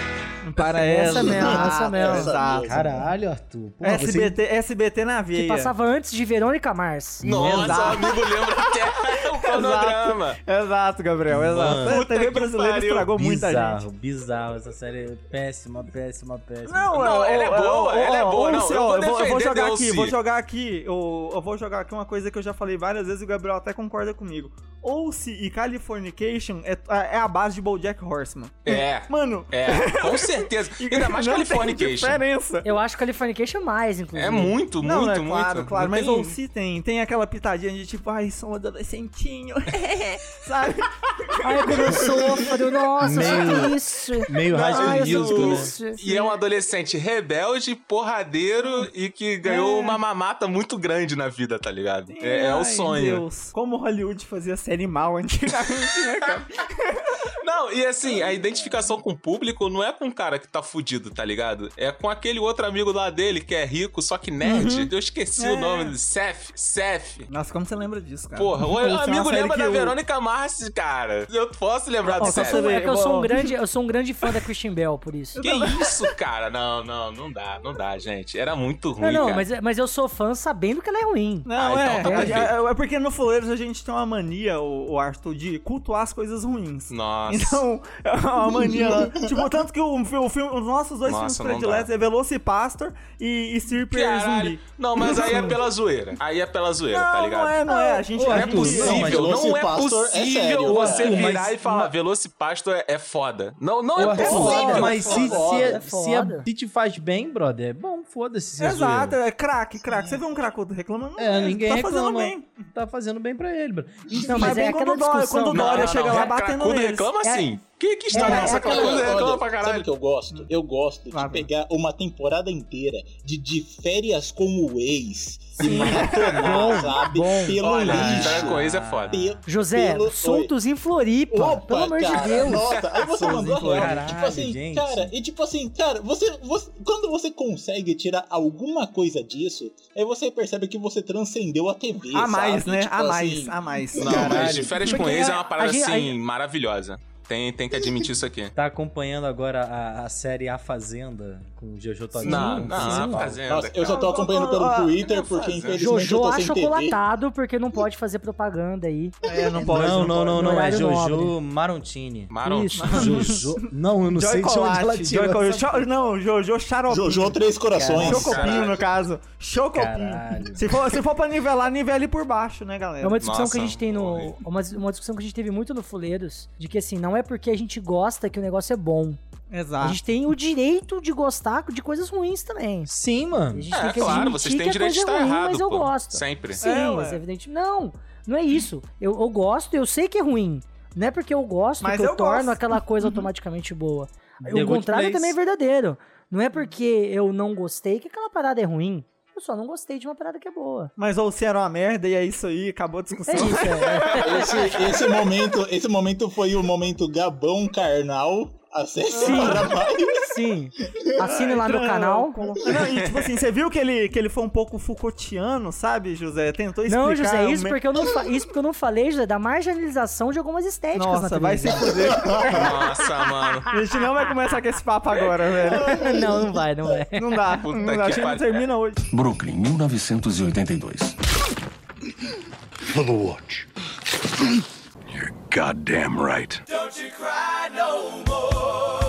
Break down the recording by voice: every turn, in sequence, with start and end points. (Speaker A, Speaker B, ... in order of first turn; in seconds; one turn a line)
Speaker A: 0.4-2.9
Speaker B: 0.8-2.3
Speaker C: 1.1-3.0
Speaker D: 2.6-4.4
Speaker A: 3.8-5.7
Speaker B: 5.3-7.2
Speaker D: 7.2-7.9
Speaker E: 7.2-10.4
Speaker A: 7.5-8.7
Speaker A: 9.4-13.8
Speaker D: 11.3-12.0
Speaker E: 11.8-13.1
Speaker D: 13.2-17.1
Speaker A: 16.7-32.7
Speaker E: 16.9-20.2
Speaker E: 28.7-32.2
Speaker B: 32.6-34.6
Speaker E: 34.1-36.3
Speaker A: 34.8-42.5
Speaker B: 41.4-46.2
Speaker D: 43.0-43.8
Speaker D: 44.3-45.7
Speaker E: 44.7-53.2
Speaker A: 48.6-48.9
Speaker A: 49.5-50.0
Speaker A: 52.1-57.2
Speaker E: 57.4-67.3
Speaker A: 64.4-65.9
Speaker A: 67.3-70.0
Speaker E: 68.4-72.7
Speaker A: 72.1-73.5
Speaker B: 72.2-75.4
Speaker A: 75.4-76.1
Speaker E: 75.4-79.5
Speaker B: 79.0-82.4
Speaker A: 81.5-95.6
Speaker E: 81.6-82.5
Speaker E: 86.9-87.6
Speaker C: 88.5-89.4
Speaker E: 91.1-91.9
Speaker E: 93.9-105.0
Speaker A: 96.9-99.1
Speaker D: 98.1-99.5
Speaker C: 98.8-101.3
Speaker D: 100.7-101.9
Speaker D: 104.0-109.2
Speaker C: 104.0-105.8
Speaker A: 104.2-105.4
Speaker B: 104.3-106.5
Speaker A: 108.6-112.7
Speaker C: 109.9-110.2
Speaker D: 111.2-114.8
Speaker B: 114.2-116.3
Speaker A: 114.3-117.1
Speaker E: 115.5-119.9
Speaker B: 117.2-117.5
Speaker B: 118.1-119.1
Speaker C: 118.1-130.5
Speaker A: 121.1-121.5
Speaker B: 125.6-127.5
Speaker A: 125.6-126.8
Speaker D: 126.4-129.3
Speaker E: 127.6-129.2
Speaker B: 129.5-132.7
Speaker C: 131.3-144.8
Speaker A: 133.0-134.0
Speaker D: 133.5-135.1
Speaker A: 142.1-144.5
Speaker E: 144.0-148.5
Speaker D: 144.1-144.9
Speaker B: 144.9-146.2
Speaker D: 148.6-153.4
Speaker E: 152.2-154.2
Speaker B: 152.2-153.2
Speaker C: 153.2-157.0
Speaker A: 153.9-155.5
Speaker E: 155.1-155.9
Speaker B: 155.8-159.2
Speaker A: 159.2-160.5
Speaker D: 159.6-165.9
Speaker B: 160.0-161.3
Speaker E: 162.3-163.2
Speaker B: 162.4-163.1
Speaker A: 162.8-173.2
Speaker C: 166.9-168.8
Speaker D: 167.7-168.4
Speaker E: 168.1-168.8
Speaker D: 169.7-170.7
Speaker B: 173.0-179.2
Speaker E: 173.2-174.4
Speaker A: 179.5-180.0
Speaker B: 179.8-182.9
Speaker D: 182.9-184.2
Speaker B: 183.5-200.9
Speaker E: 183.7-186.6
Speaker A: 186.6-187.2
Speaker A: 191.8-192.8
Speaker D: 194.4-195.4
Speaker A: 201.0-204.5
Speaker B: 203.3-204.5
Speaker E: 204.1-204.9
Speaker C: 204.2-210.4
Speaker A: 209.1-209.7
Speaker B: 209.2-212.4
Speaker A: 211.2-217.8
Speaker E: 213.0-213.3
Speaker B: 216.9-223.5
Speaker A: 220.9-222.7
Speaker C: 222.0-222.7
Speaker E: 222.4-223.7
Speaker A: 223.7-226.1
Speaker B: 225.6-227.4
Speaker A: 227.1-229.1
Speaker E: 227.5-228.7
Speaker F: 229.1-231.2
Speaker F: 232.9-233.7
Speaker F: 234.4-236.7
Speaker E: 236.8-238.1